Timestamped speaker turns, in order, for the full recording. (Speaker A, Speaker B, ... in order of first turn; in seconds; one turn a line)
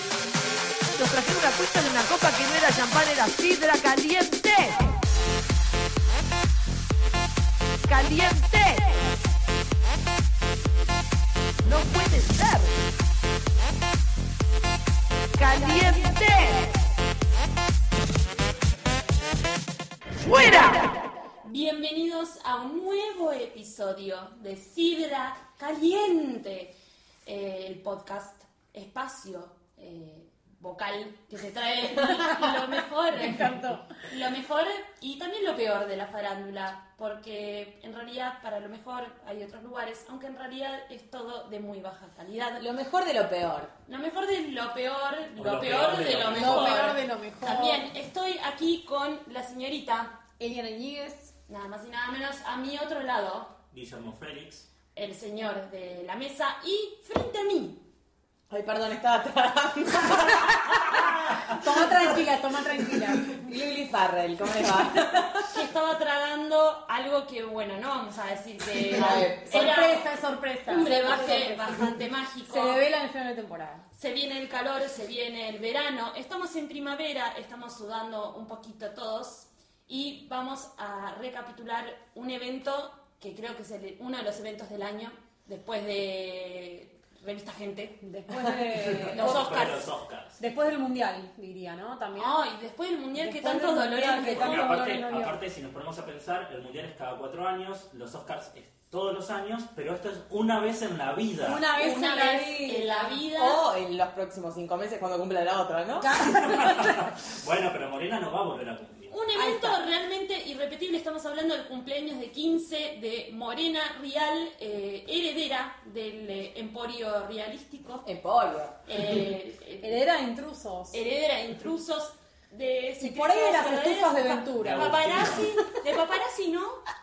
Speaker A: 0.9-4.8
Speaker A: 7.9-9.0
Speaker A: 11.7-12.8
Speaker A: 15.4-16.7
Speaker B: 15.6-16.1
Speaker A: 20.2-20.9
Speaker B: 21.4-26.7
Speaker B: 27.2-42.6
Speaker C: 32.0-32.5
Speaker C: 33.1-33.9
Speaker D: 42.6-43.7
Speaker B: 43.9-50.2
Speaker E: 45.3-47.0
Speaker C: 46.3-47.9
Speaker C: 50.4-51.3
Speaker B: 51.5-53.5
Speaker E: 53.7-54.7
Speaker B: 54.9-57.8
Speaker D: 58.5-62.2
Speaker C: 61.5-63.3
Speaker D: 63.0-65.5
Speaker B: 65.5-72.8
Speaker D: 68.8-69.8
Speaker C: 69.0-71.8
Speaker C: 72.5-73.8
Speaker B: 74.0-88.0
Speaker C: 88.0-89.5
Speaker E: 88.5-90.4
Speaker B: 89.1-89.9
Speaker C: 90.4-92.4
Speaker B: 92.2-94.8
Speaker C: 93.2-95.4
Speaker E: 94.2-101.7
Speaker C: 101.4-103.2
Speaker B: 101.8-103.6
Speaker D: 103.4-106.2
Speaker C: 106.0-107.1
Speaker E: 106.2-109.1
Speaker B: 109.1-118.0
Speaker D: 109.4-109.8
Speaker D: 118.0-118.8
Speaker B: 118.8-120.0
Speaker C: 119.8-121.0
Speaker B: 120.9-126.8
Speaker C: 123.0-125.4
Speaker E: 124.6-125.7